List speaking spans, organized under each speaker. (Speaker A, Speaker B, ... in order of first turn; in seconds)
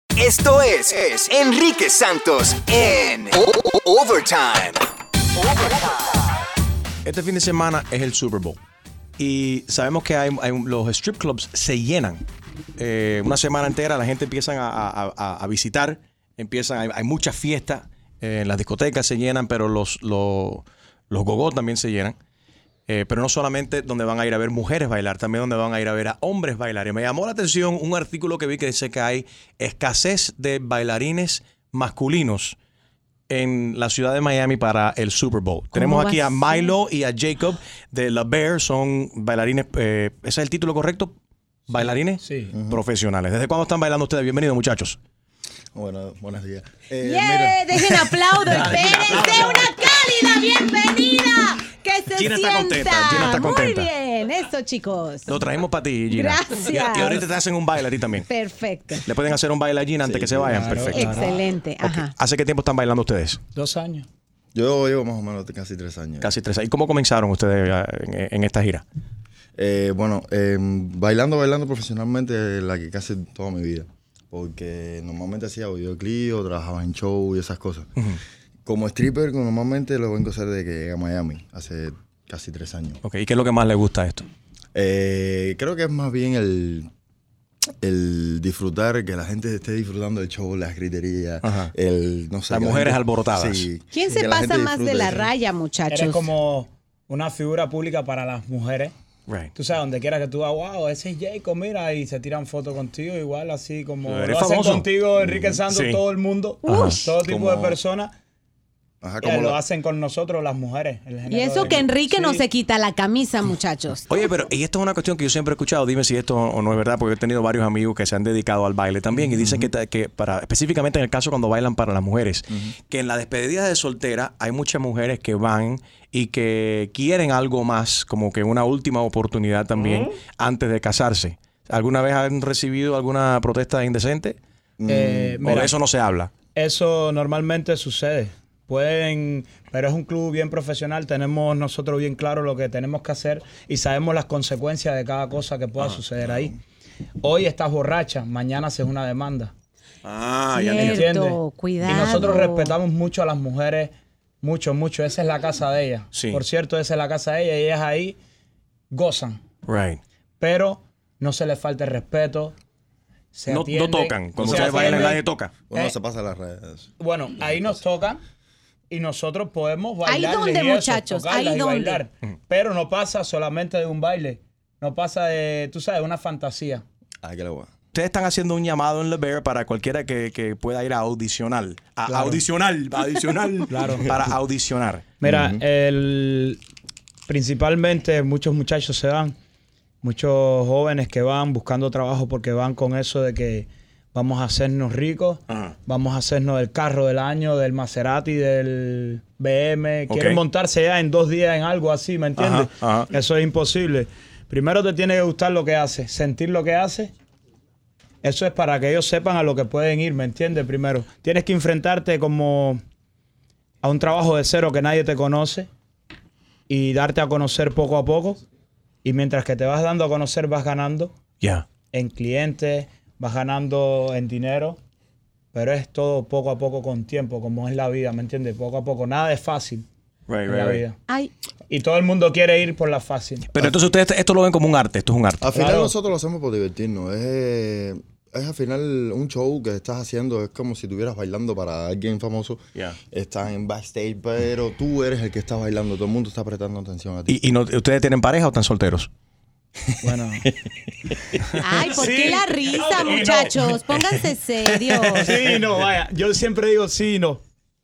Speaker A: 0.2-4.8
Speaker B: 7.0-8.6, 9.2-12.2, 12.8-22.1, 22.9-32.5, 33.3-41.1, 41.7-45.0, 48.4-49.7, 52.1-53.9, 55.3-58.3, 59.0-61.1, 61.8-63.4, 66.2-68.8, 83.0-84.3, 91.4-91.7, 92.5-93.7, 104.0-104.8, 105.7-106.0, 106.7-107.8, 114.1-134.4, 135.4-136.3, 150.0-151.1, 156.1-156.4, 159.7-160.0, 163.5-165.5, 177.9-185.1, 195.5-195.7, 200.1-200.4, 202.4-203.1, 221.4-221.7, 230.3-230.8, 233.5-235.4, 247.3-249.1, 251.4-251.8, 253.9-255.6
Speaker C: 35.7-36.7, 47.0-55.4, 56.1-57.3, 58.2-59.1, 60.9-62.1, 93.9-96.3, 106.7-107.0, 111.3-114.0, 150.5-152.7, 164.7-165.1, 170.1-172.0, 251.6-255.3
Speaker D: 41.8-42.5, 60.5-61.4, 63.5-64.1, 95.9-98.9, 99.5-108.1, 109.2-112.5, 134.9-135.8, 136.5-146.6, 147.2-149.5, 150.7-158.2, 158.9-159.4, 160.4-162.6, 163.3-165.9, 167.0-168.2, 168.9-176.8, 182.1-182.4, 183.7-184.1, 185.2-186.6, 187.3-189.3, 190.0-207.1, 208.2-212.8, 213.8-215.7, 216.7-218.4, 219.0-221.1, 221.9-224.8, 225.5-229.9, 230.4-231.0, 231.7-233.5, 235.5-235.9, 250.0-250.5, 251.8-253.7, 255.2-257.4
Speaker E: 42.5-42.8, 45.7-47.8, 60.0-60.9, 64.5-66.3, 69.6-77.9, 78.7-83.0, 84.7-86.9, 87.8-95.3, 105.2-105.6, 109.0-109.6, 119.1-119.7, 134.8-135.7, 164.4-164.9, 165.7-166.9, 177.2-177.7, 185.2-185.6, 235.4-247.4